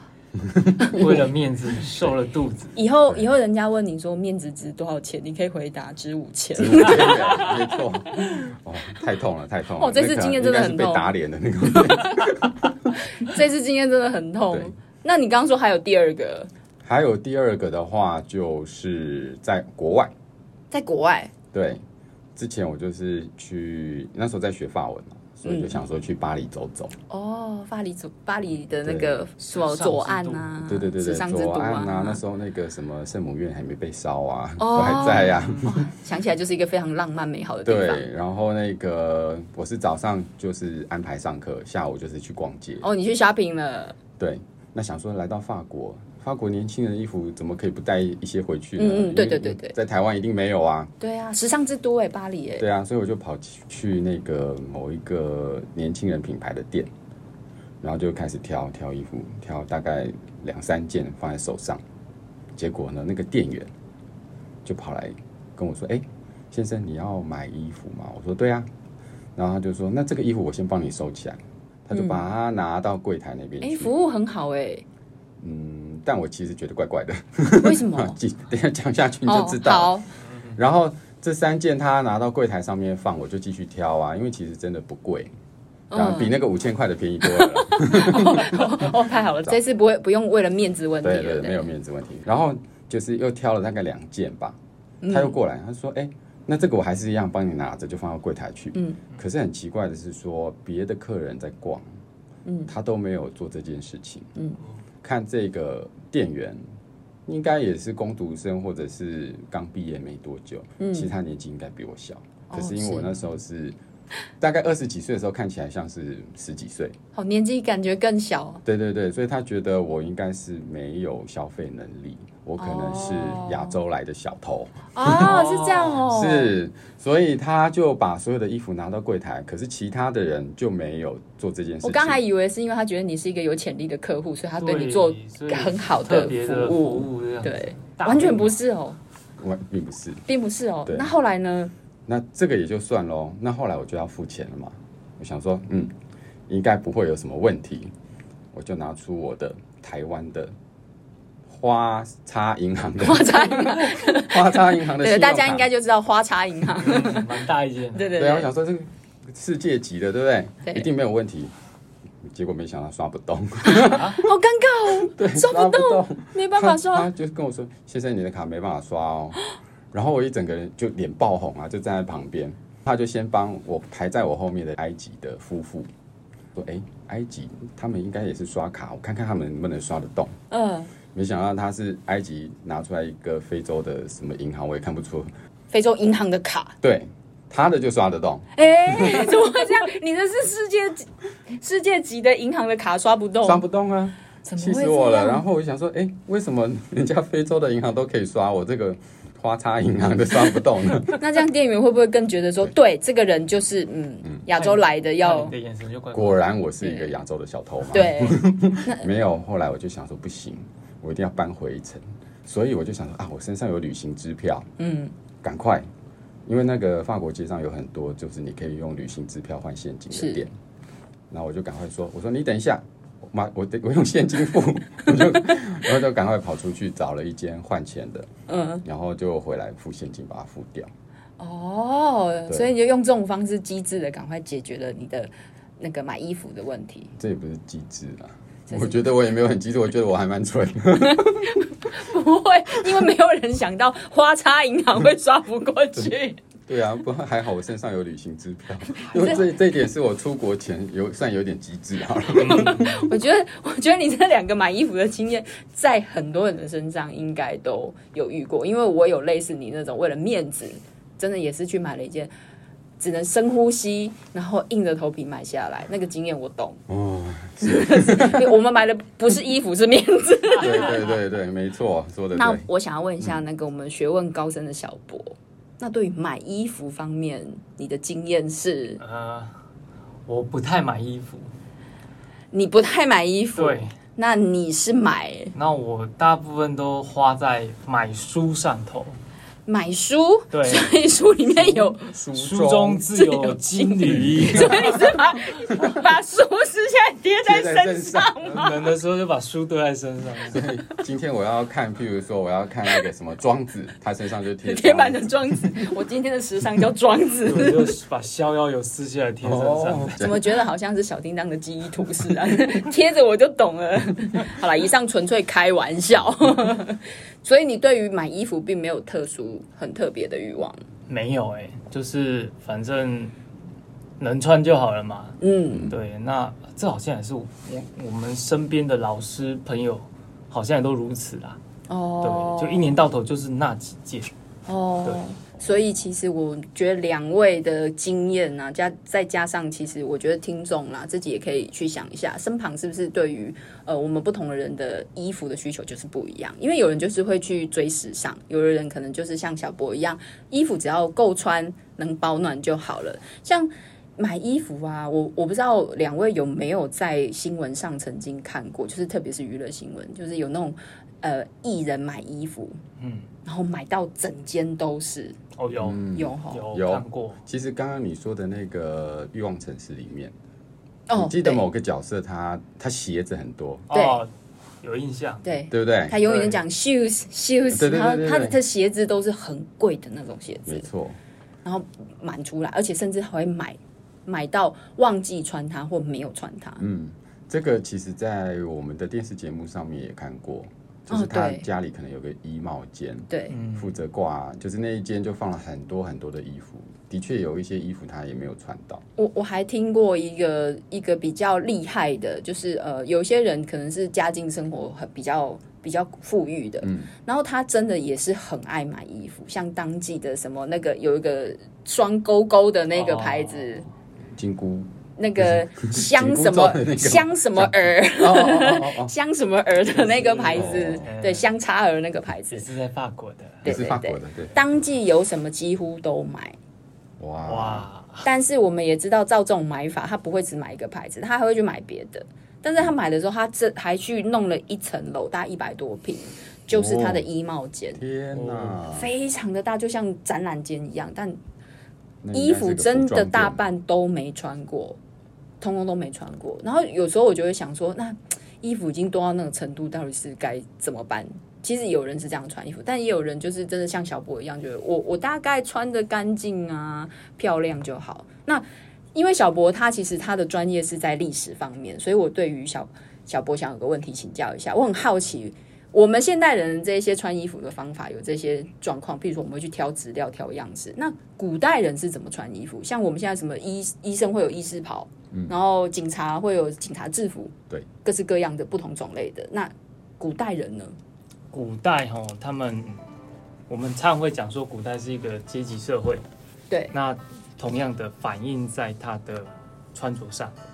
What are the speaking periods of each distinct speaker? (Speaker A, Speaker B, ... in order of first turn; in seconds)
Speaker A: 0.3-1.2, 6.5-12.9, 16.8-20.1, 21.5-21.8, 22.4-26.9, 28.8-29.2, 30.7-35.9, 37.6-42.9, 44.2-50.9, 52.6-56.9, 57.8-61.8, 62.5-63.7, 64.6-68.7, 69.3-73.9, 75.4-79.9, 80.5-85.3, 85.9-89.6, 91.0-94.6, 95.1-101.8, 102.7-104.3, 105.0-106.6, 107.2-113.8, 114.4-117.0, 118.6-125.4, 126.0-132.2, 139.4-140.2, 140.8-141.1, 142.1-145.9, 146.5-147.9, 148.5-150.5, 151.5-155.7, 158.1-161.5, 162.2-164.2, 165.0-169.4, 169.9-175.9, 176.5-180.3, 181.1-185.3, 186.8-189.3, 193.4-201.2, 206.1-214.7, 215.4-215.9, 216.4-220.5, 221.3-228.3, 228.8-230.9, 237.2-241.6, 246.7-253.1, 266.9-268.5, 270.6-272.6, 291.6-293.1, 294.1-294.9, 297.4-298.6, 300.5-305.7, 309.4-310.4, 365.8-370.3, 371.1-373.9, 375.7-376.2, 377.7-378.6, 380.6-381.2, 386.8-399.0, 406.8-407.1, 414.3-419.1, 420.5-421.1, 423.6-424.6, 427.2-427.9, 436.7-437.2, 437.9-439.1, 442.2-443.6
Speaker B: 0.9-2.8, 29.4-30.5, 125.1-126.0, 134.6-138.6, 156.8-158.1, 163.8-164.2, 204.5-206.4, 252.4-252.7, 270.6-271.0, 279.0-279.6, 280.3-281.5, 283.6-283.9, 285.5-289.2, 290.5-291.0, 292.3-295.0, 298.5-300.6, 307.4-310.2, 321.1-323.3, 324.2-331.6, 332.2-334.3, 363.0-363.3, 365.6-367.4, 373.9-374.3, 374.8-375.4, 376.2-376.6, 393.5-393.9, 412.9-413.8, 419.9-421.5, 422.5-423.6, 427.4-428.2, 438.3-438.8, 481.5-483.0, 483.7-486.2, 486.9-490.5
Speaker C: 2.8-7.5, 9.8-11.1, 11.7-12.4, 12.9-16.5, 20.7-21.3, 25.4-25.8, 27.1-32.2, 34.6-38.0, 42.8-44.0, 48.8-49.7, 51.0-52.7, 71.9-72.2, 73.6-74.8, 77.5-78.2, 79.3-80.1, 85.9-86.3, 87.2-91.7, 95.0-95.3, 102.5-102.7, 110.8-111.1, 112.5-113.2, 117.1-118.6, 122.6-123.8, 124.9-126.5, 131.8-139.0, 140.3-141.7, 153.0-157.3, 157.9-158.5, 163.6-167.1, 180.5-180.9, 185.7-186.8, 188.5-193.6, 194.4-195.4, 201.1-205.5, 206.8-207.1, 207.9-209.1, 214.8-215.1, 220.1-220.4, 228.5-228.8, 231.4-237.1, 238.7-238.9, 241.2-246.4, 249.0-249.4, 252.3-262.3, 263.0-266.8, 267.6-271.1, 272.3-279.0, 282.5-285.5, 289.6-292.1, 293.1-298.8, 304.6-307.9, 310.2-320.8, 325.4-325.9, 331.9-333.0, 334.7-362.8, 363.4-365.4, 366.1-366.7, 371.1-371.6, 373.9-374.2, 375.4-380.9, 381.6-386.8, 391.1-391.7, 393.3-393.6, 399.2-413.8, 415.2-422.6, 423.6-426.6, 428.2-438.0, 438.9-441.4, 442.3-445.0, 445.6-480.9